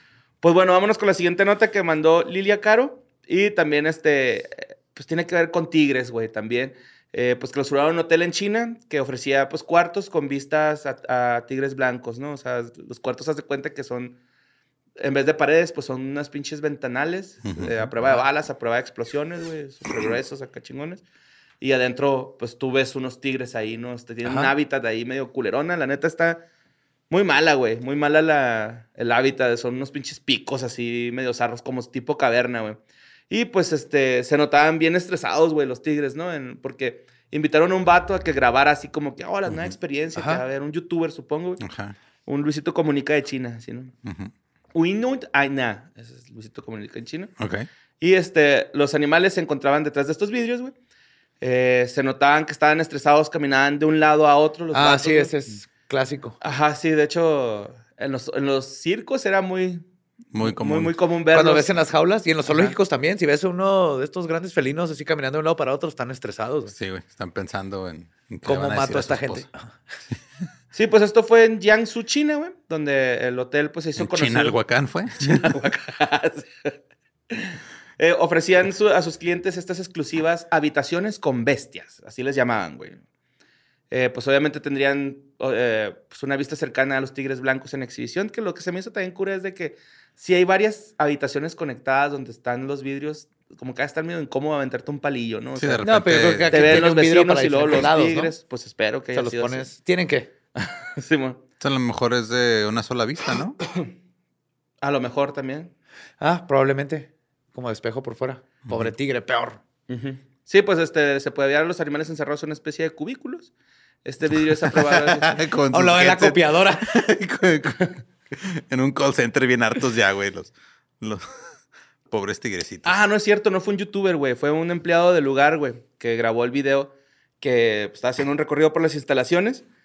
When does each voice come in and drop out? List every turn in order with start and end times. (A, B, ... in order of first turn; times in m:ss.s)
0:00.4-0:14.2 A
0:15.0-0:21.0 A
0:17.5-0:17.9 B
0:21.6-0:26.4 A
0:24.2-0:24.5 C
0:27.1-0:32.8 A
0:33.3-0:41.6 A
0:40.2-0:40.4 C
0:41.6-0:42.0 B
0:42.3-0:43.9 A
0:44.0-0:44.3 B
0:44.7-0:47.3 A
0:47.4-0:47.7 B
0:48.0-0:50.7 A
0:51.4-0:55.3 A
0:54.7-0:56.4 C
0:56.4-0:59.8 A
1:00.3-1:01.0 B
1:00.4-1:01.7 A
1:01.3-1:06.7 C
1:02.5-1:02.8 A
1:06.7-1:09.5 B
1:08.5-1:09.8 C
1:10.7-1:14.6 A
1:14.0-1:15.5 B
1:15.2-1:16.8 A
1:17.3-1:23.0 A
1:23.9-1:35.9 A
1:35.6-1:36.9 B
1:35.8-1:38.3 C
1:36.5-1:39.7 A
1:39.1-1:40.3 C
1:40.6-1:41.4 A
1:41.6-1:43.6 B
1:44.8-1:45.7 A
1:46.2-1:49.6 C
1:48.7-1:48.9 B
1:49.9-1:53.5 A
1:54.0-1:55.4 A
1:54.6-2:01.2 B
1:55.7-1:56.9 C
2:02.1-2:03.0 B
2:02.8-2:09.6 A